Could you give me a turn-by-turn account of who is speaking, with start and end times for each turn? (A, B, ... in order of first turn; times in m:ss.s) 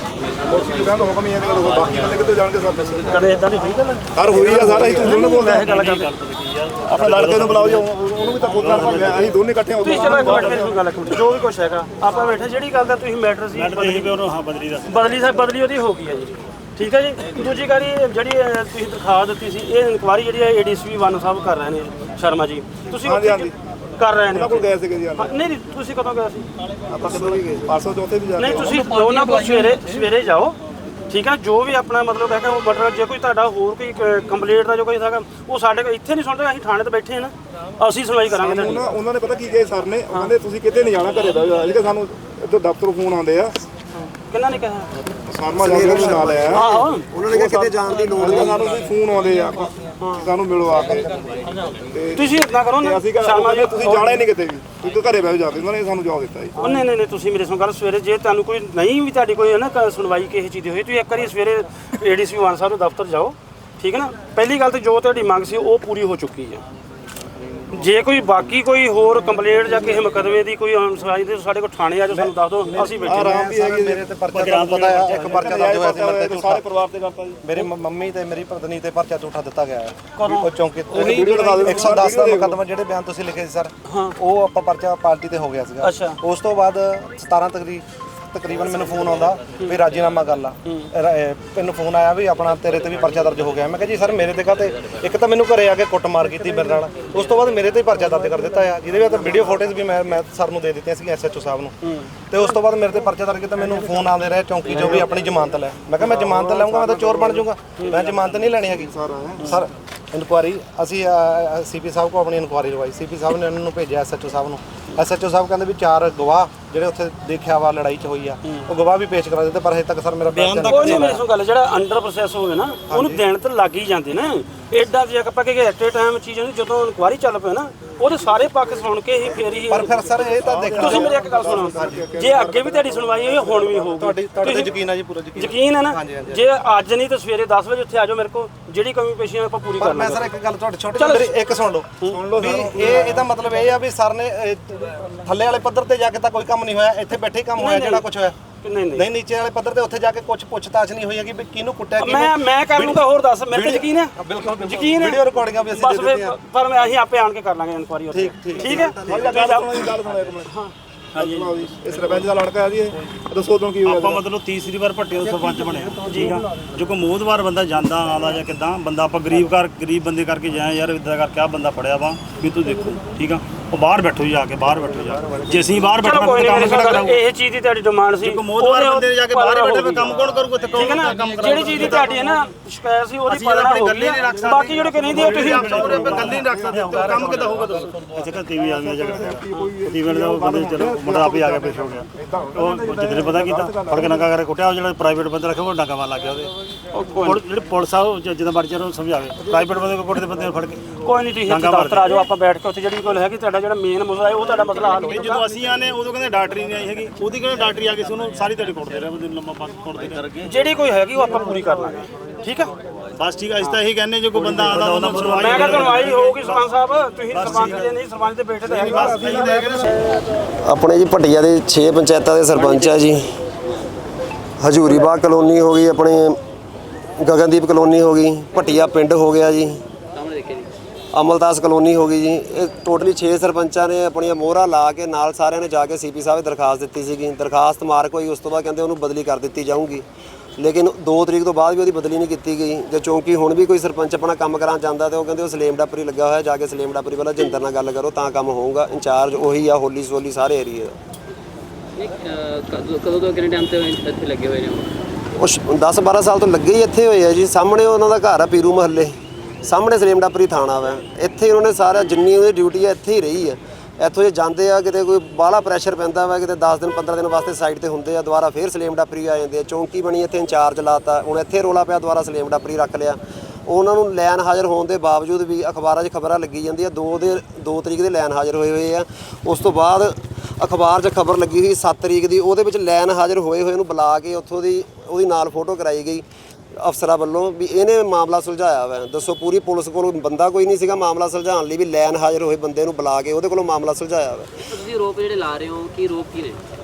0:00.4-0:03.3 A
0:03.0-0:06.1 B
0:04.1-0:05.7 A
0:05.3-0:07.9 C
0:06.8-0:10.8 A
0:08.4-0:09.4 C
0:09.8-0:14.2 B
0:13.5-0:15.1 C
0:14.8-0:26.5 B
0:23.0-0:23.6 A
0:24.3-0:25.3 A
0:26.9-0:27.7 D
0:26.9-0:28.9 A
0:28.4-0:30.6 B
0:31.1-0:38.9 B
0:38.3-0:43.6 A
0:44.1-0:45.0 B
0:45.2-0:46.7 A
0:45.6-0:48.7 D
0:46.5-0:47.1 B
0:47.3-0:56.7 A
0:50.0-0:50.3 B
0:52.1-0:54.2 B
0:56.6-1:06.6 B
1:07.7-1:13.4 B
1:12.6-1:15.1 E
1:13.0-1:14.1 A
1:13.3-1:13.9 D
1:14.3-1:15.7 C
1:14.5-1:15.7 D
1:15.1-1:17.6 A
1:15.7-1:16.5 E
1:17.5-1:19.9 E
1:20.2-1:21.9 B
1:20.5-1:41.7 E
1:20.9-1:22.6 A
1:20.9-1:22.1 D
1:23.8-1:24.2 B
1:25.8-1:26.2 B
1:34.1-1:35.1 D
1:36.4-1:37.5 D
1:39.0-1:39.7 D
1:42.3-1:46.1 E
1:44.7-1:45.2 A
1:44.7-1:45.0 D
1:46.0-1:47.4 A
1:46.1-1:48.9 D
1:47.6-1:48.6 E
1:48.4-1:49.5 A
1:49.7-2:01.2 E
2:00.3-2:14.8 B
2:00.5-2:01.2 D
2:02.9-2:03.2 E
2:09.7-2:10.8 E
2:10.3-2:13.8 A
2:10.6-2:12.0 D
2:14.0-2:16.4 E
2:15.3-2:20.3 B
2:19.8-2:22.0 E
2:21.0-2:21.3 B
2:22.0-2:23.3 A
2:22.4-2:23.0 D
2:22.6-2:28.3 E
2:27.6-2:28.0 B
2:28.6-2:29.1 B
2:29.2-2:33.0 E
2:32.0-2:39.9 B
2:34.2-2:36.3 E
2:38.1-2:38.6 E
2:38.6-2:39.6 D
2:38.7-2:40.5 A
2:40.4-2:41.7 B
2:41.1-2:44.2 A
2:43.8-2:57.2 C
2:46.0-2:46.4 B
2:55.8-3:00.2 B
2:58.2-3:02.3 C
3:00.7-3:06.4 B
3:03.3-3:16.5 C
3:04.2-3:07.7 A
3:07.1-3:07.9 D
3:08.6-3:14.3 A
3:16.9-3:17.4 B
3:17.2-3:22.3 C
3:21.0-3:25.4 B
3:24.8-3:30.5 C
3:30.4-3:32.7 B
3:33.2-3:37.9 C
3:34.3-3:39.8 B
3:38.7-3:39.9 A
3:38.7-3:39.9 C
3:40.6-3:43.2 D
3:42.6-3:43.0 F
3:44.6-3:46.4 D
3:47.2-3:49.8 D
3:50.1-3:50.7 F
3:51.1-4:00.0 D
4:00.6-4:11.0 D
4:12.0-4:15.0 F
4:15.4-4:46.2 D
4:46.8-4:54.6 D
4:54.7-4:56.6 F